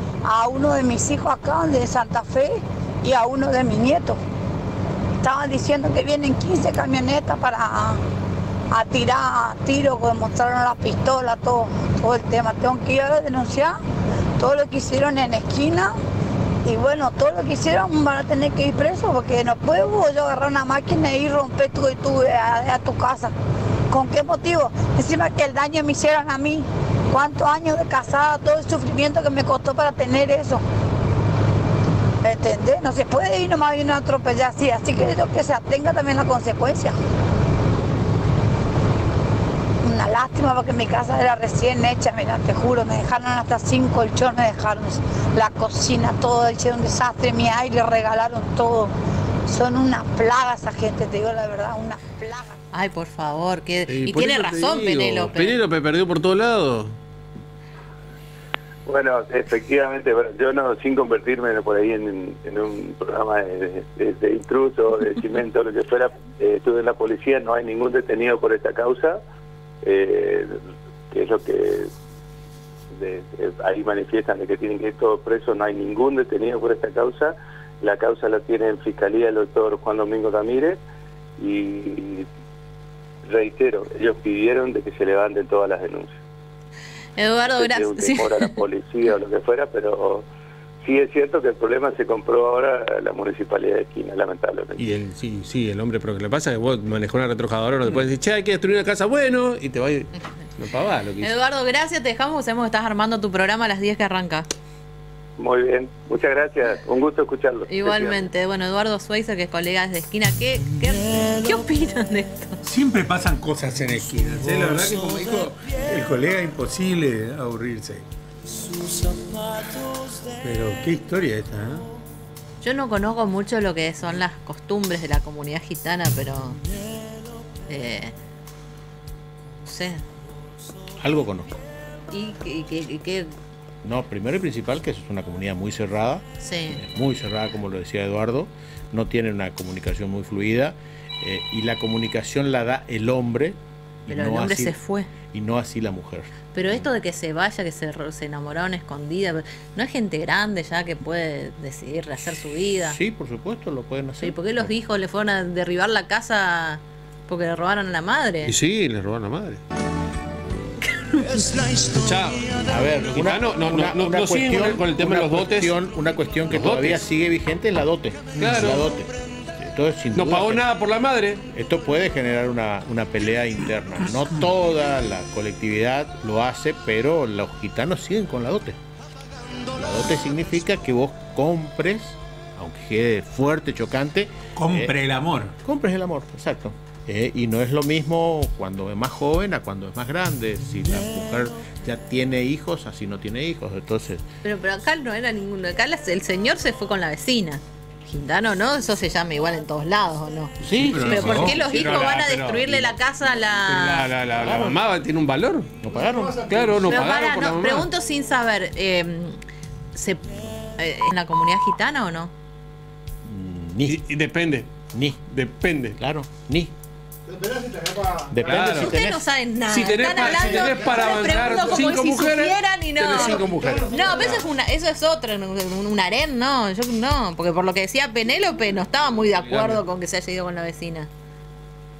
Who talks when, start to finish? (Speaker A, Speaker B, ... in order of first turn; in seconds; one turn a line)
Speaker A: 0.2-4.2
Speaker A: 5.2-8.0
Speaker A: 8.7-13.8
Speaker A: 14.4-15.9
Speaker A: 16.6-23.3
Speaker A: 23.9-30.6
Speaker A: 32.2-37.0
Speaker A: 39.8-48.9
Speaker A: 49.5-52.5
Speaker B: 52.7-55.6
Speaker C: 53.9-57.0
Speaker D: 58.9-69.2
Speaker D: 69.8-70.5
Speaker D: 71.1-71.9
Speaker D: 72.9-80.8
Speaker D: 81.4-82.2
Speaker D: 83.2-86.1
Speaker B: 87.2-88.5
Speaker D: 87.5-90.2
Speaker D: 90.8-94.8
Speaker C: 94.8-101.3
Speaker B: 101.2-104.5
Speaker D: 105.4-108.3
Speaker B: 107.7-112.6
Speaker E: 112.6-118.0
Speaker E: 120.4-121.8
Speaker B: 122.6-126.6
Speaker B: 127.7-128.1
Speaker B: 129.6-130.0
Speaker F: 131.0-131.7
Speaker B: 132.1-133.3
Speaker F: 133.8-146.9
Speaker B: 136.4-136.8
Speaker B: 144.1-145.1
Speaker B: 146.5-153.0
Speaker F: 152.7-154.7
Speaker B: 154.2-158.6
Speaker C: 158.4-159.6
Speaker B: 161.0-161.6
Speaker C: 161.8-165.7
Speaker F: 162.7-170.7
Speaker C: 166.5-167.1
Speaker C: 168.4-168.8
Speaker C: 170.1-171.4
Speaker F: 171.5-178.8
Speaker F: 179.7-185.0
Speaker E: 184.6-185.5
Speaker F: 185.6-194.2
Speaker B: 194.4-204.1
Speaker F: 200.6-202.1
Speaker E: 200.9-201.6
Speaker C: 201.5-202.9
Speaker C: 203.6-205.7
Speaker F: 204.4-204.8
Speaker F: 205.8-206.7
Speaker C: 206.4-207.9
Speaker B: 206.8-209.4
Speaker B: 209.9-212.3
Speaker F: 213.2-214.0
Speaker C: 213.9-214.7
Speaker F: 214.9-215.2
Speaker C: 215.3-216.0
Speaker F: 216.0-216.7
Speaker F: 218.2-219.2
Speaker C: 218.4-218.9
Speaker B: 218.7-231.1
Speaker C: 219.7-224.4
Speaker C: 228.9-229.8